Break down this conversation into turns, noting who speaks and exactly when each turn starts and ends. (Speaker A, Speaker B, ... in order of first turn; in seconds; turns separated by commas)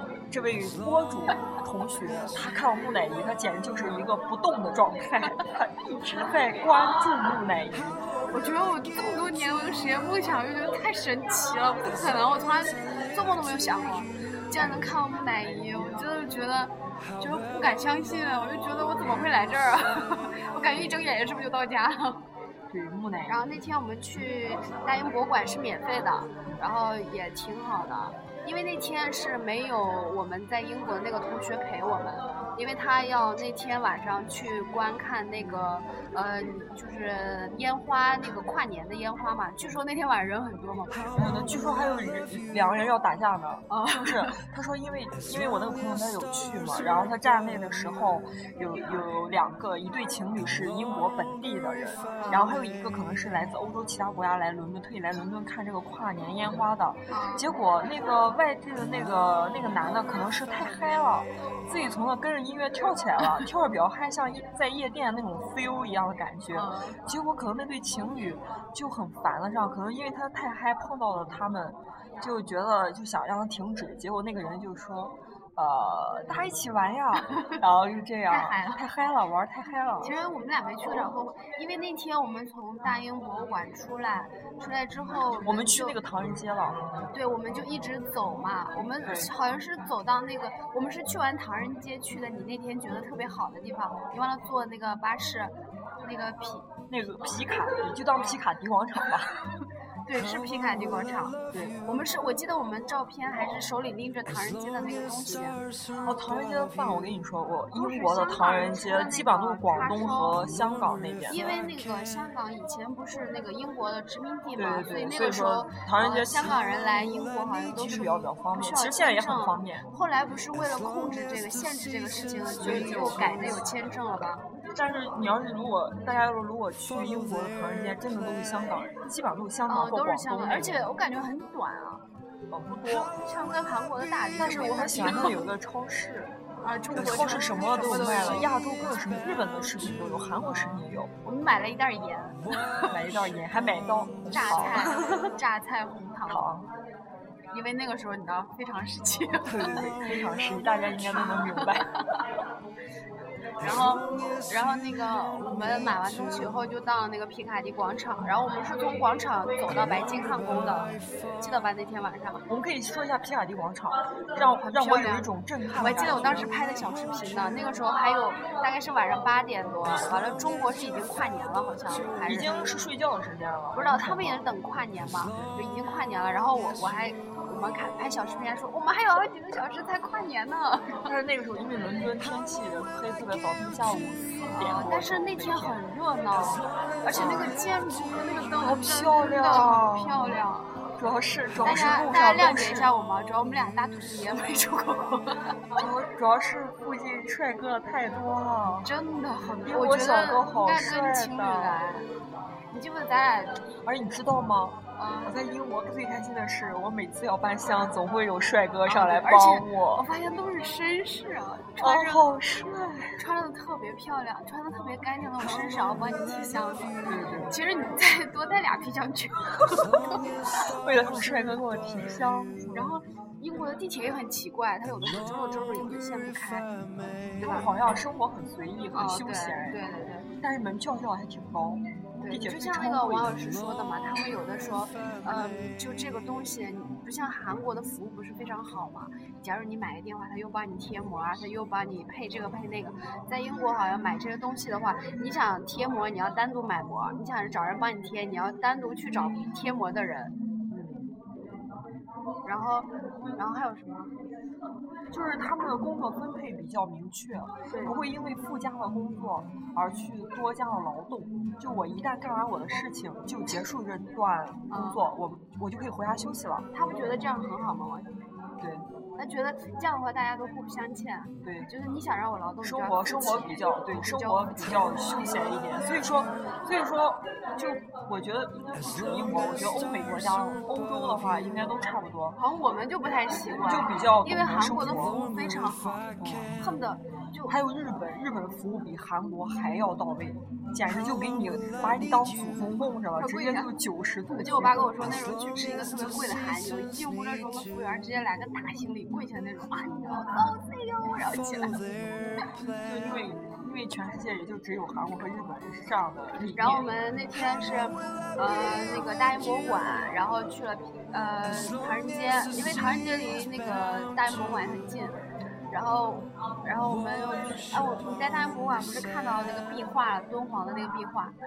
Speaker A: 0.3-8.0, Speaker B: 8.3-22.2, Speaker A: 14.6-16.0, Speaker A: 20.7-21.0, Speaker A: 22.7-23.4, Speaker B: 23.3-41.3, Speaker A: 41.1-80.1, Speaker B: 43.7-44.4, Speaker B: 52.2-52.5, Speaker B: 57.1-57.5, Speaker B: 66.5-67.0, Speaker B: 78.3-78.8, Speaker B: 80.0-86.0, Speaker A: 85.3-86.8, Speaker B: 87.1-95.5, Speaker A: 89.0-89.3, Speaker B: 96.0-96.7, Speaker A: 96.9-99.3, Speaker B: 100.1-105.6, Speaker A: 105.9-111.4, Speaker B: 107.7-110.4, Speaker B: 111.3-124.4, Speaker A: 114.5-116.6, Speaker A: 117.8-119.9, Speaker A: 122.6-123.8, Speaker A: 124.7-130.9, Speaker B: 129.7-132.0, Speaker A: 132.5-133.1, Speaker B: 133.1-135.4, Speaker A: 134.4-136.3, Speaker B: 136.6-138.5, Speaker A: 136.9-141.1, Speaker B: 141.2-142.9, Speaker A: 142.9-145.3, Speaker B: 144.3-146.5, Speaker A: 146.3-146.7, Speaker B: 147.5-149.8, Speaker A: 149.4-151.9, Speaker B: 151.2-151.9, Speaker B: 153.6-162.4, Speaker A: 153.6-154.0, Speaker A: 162.5-166.5, Speaker B: 164.6-172.6, Speaker A: 172.2-174.4, Speaker B: 173.7-181.1, Speaker A: 181.0-185.8, Speaker B: 184.5-190.7, Speaker A: 187.1-187.5, Speaker A: 188.6-190.4, Speaker A: 191.0-192.9, Speaker B: 191.6-195.8, Speaker A: 195.7-198.9, Speaker B: 198.8-202.1, Speaker A: 199.6-201.8, Speaker B: 202.7-203.6, Speaker A: 203.8-210.1, Speaker B: 205.0-205.3, Speaker B: 208.8-212.2, Speaker A: 211.8-213.2, Speaker B: 213.2-220.2, Speaker A: 217.1-217.6, Speaker A: 220.6-223.0, Speaker B: 222.7-226.7, Speaker A: 227.4-229.8, Speaker B: 227.4-227.7, Speaker B: 228.9-230.3, Speaker A: 230.4-233.3, Speaker B: 232.2-250.3, Speaker A: 250.7-251.1, Speaker B: 252.4-254.1, Speaker A: 255.1-266.6, Speaker B: 257.7-258.0, Speaker B: 264.7-265.0, Speaker B: 266.7-268.1, Speaker B: 269.2-275.3, Speaker A: 271.4-271.7, Speaker A: 272.6-282.4, Speaker B: 282.4-286.0, Speaker A: 283.6-285.2, Speaker A: 286.2-286.6, Speaker B: 286.6-287.6, Speaker A: 287.5-294.9, Speaker B: 293.1-293.7, Speaker B: 294.3-301.8, Speaker A: 302.1-306.9, Speaker B: 306.5-315.1, Speaker B: 315.7-321.3